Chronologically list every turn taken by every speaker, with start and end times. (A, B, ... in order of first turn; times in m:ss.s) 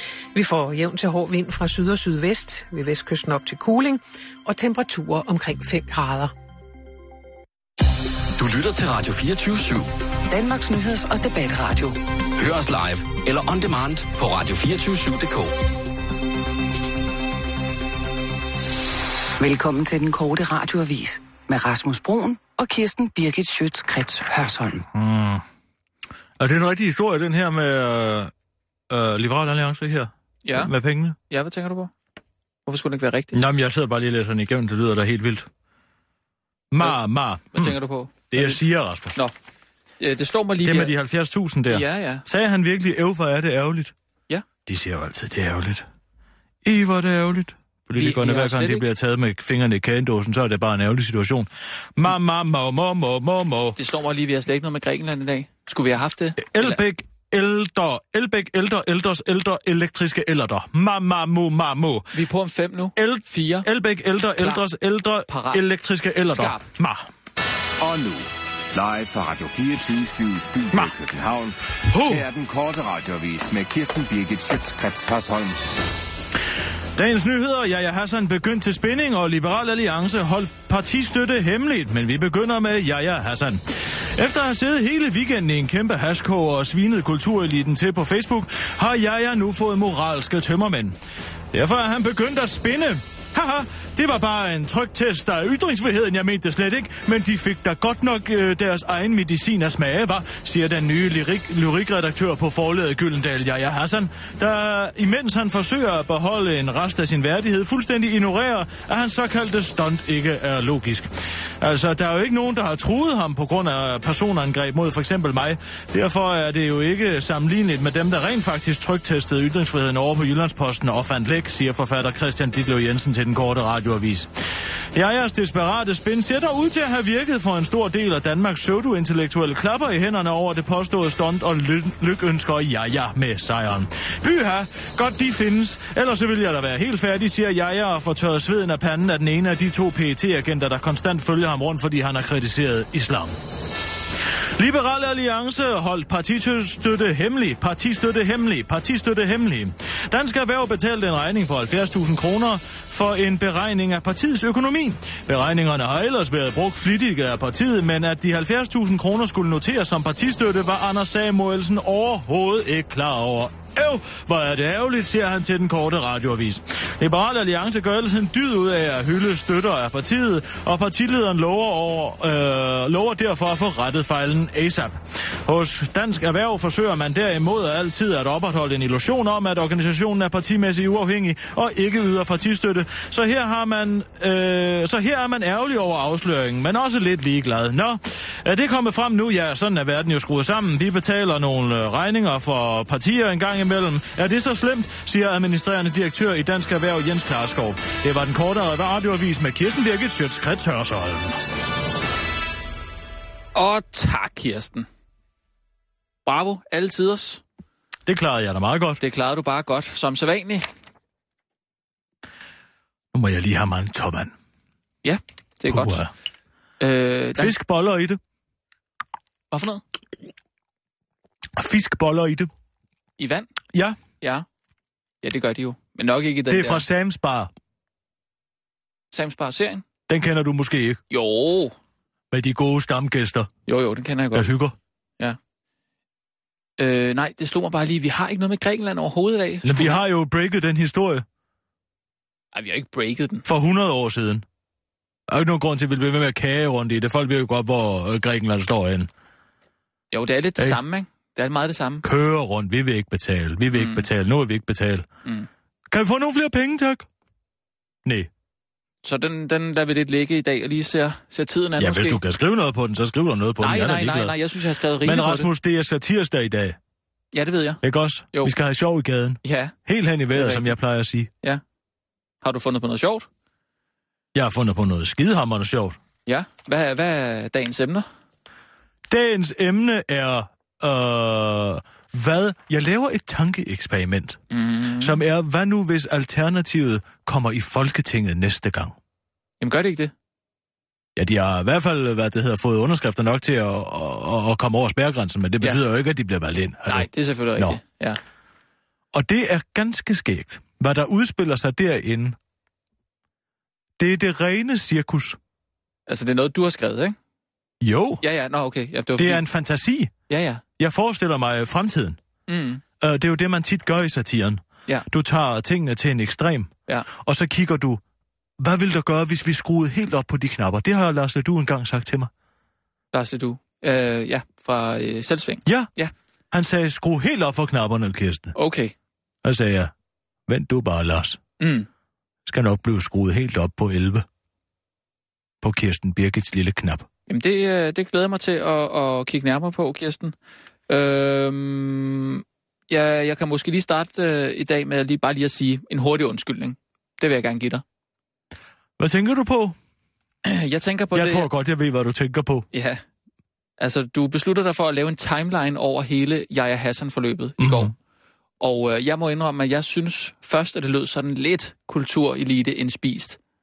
0:00.3-0:06.3 A
0:08.4-0:09.9 B
0:10.3-0:12.0 C
0:12.4-0:15.5 B
0:19.4-0:24.8 C
0:24.9-0:25.4 D
0:26.4-0:28.3 D
0:28.9-0:31.2 D
0:30.4-0:30.7 E
0:31.3-0:31.9 E
0:32.7-0:33.4 E
0:33.3-0:35.5 D
0:36.7-0:37.8 D
0:37.5-0:38.6 E
0:38.3-0:39.2 D
0:40.0-0:40.9 E
0:40.6-0:43.9 D
0:41.7-0:42.2 E
0:44.7-0:45.8 D
0:46.6-0:53.8 D
0:48.0-0:48.8 E
0:53.8-0:56.8 E
0:56.4-1:02.1 D
1:02.1-1:03.7 E
1:03.0-1:07.1 D
1:04.4-1:04.6 E
1:05.3-1:05.6 E
1:06.2-1:06.6 E
1:07.8-1:15.6 F
1:11.9-1:12.2 D
1:17.0-1:31.0 D
1:31.5-1:51.1 D
1:51.6-2:04.3 D
2:04.9-2:23.4 D
2:24.6-3:21.4 D
3:23.5-3:24.9 E
3:26.2-3:27.4 E
3:28.1-3:29.0 D
3:29.0-3:30.7 E
3:33.1-3:34.3 D
3:35.0-3:36.0 E
3:35.7-3:36.1 D
3:36.8-3:37.5 E
3:37.4-3:38.2 D
3:39.5-3:39.8 E
3:41.6-3:42.5 D
3:43.2-3:43.5 E
3:43.7-3:44.0 D
3:45.2-3:46.8 E
3:46.5-3:47.5 D
3:49.1-3:49.8 E
3:50.1-3:51.0 D
3:51.1-3:51.8 E
3:52.3-3:53.5 D
3:53.7-3:54.5 E
3:54.3-3:54.8 D
3:56.8-4:00.0 E
3:59.6-4:01.2 D
4:02.5-4:03.4 E
4:03.4-4:04.4 D
4:05.3-4:09.1 D
4:10.1-4:12.0 E
4:12.0-4:15.1 D
4:13.7-4:14.1 E
4:15.9-4:17.1 D
4:19.0-4:22.2 E
4:21.8-4:24.4 D
4:23.6-4:25.5 E
4:25.0-4:26.8 D
4:27.3-4:27.8 E
4:27.8-4:31.3 D
4:29.4-4:29.8 E
4:30.3-4:30.8 E
4:32.4-4:33.3 E
4:34.3-4:36.0 D
4:36.3-4:38.0 E
4:39.1-4:44.4 D
4:44.5-4:45.2 E
4:45.0-4:49.0 D
4:49.6-4:50.1 E
4:51.2-4:57.8 D
4:56.9-4:58.2 E
4:59.1-5:02.4 D
5:04.0-5:05.4 D
5:06.1-5:07.2 E
5:07.8-5:08.2 D
5:08.2-5:09.4 E
5:09.2-5:10.1 D
5:10.3-5:10.6 E
5:10.8-5:12.2 D
5:12.5-5:12.8 E
5:13.0-5:18.0 D
5:18.6-5:22.3 D
5:23.1-5:26.1 E
5:26.5-5:28.6 D
5:28.6-5:28.9 E
5:29.4-5:29.9 D
5:30.5-5:31.4 D
5:31.6-5:31.9 E
5:32.5-5:34.2 D
5:35.6-5:37.1 D
5:37.3-5:40.4 E
5:40.9-5:47.8 E
5:49.0-5:49.8 D
5:50.4-5:51.5 E
5:51.2-5:52.7 D
5:52.7-5:53.0 E
5:53.8-5:57.9 E
5:57.6-5:57.9 D
5:58.6-6:03.4 E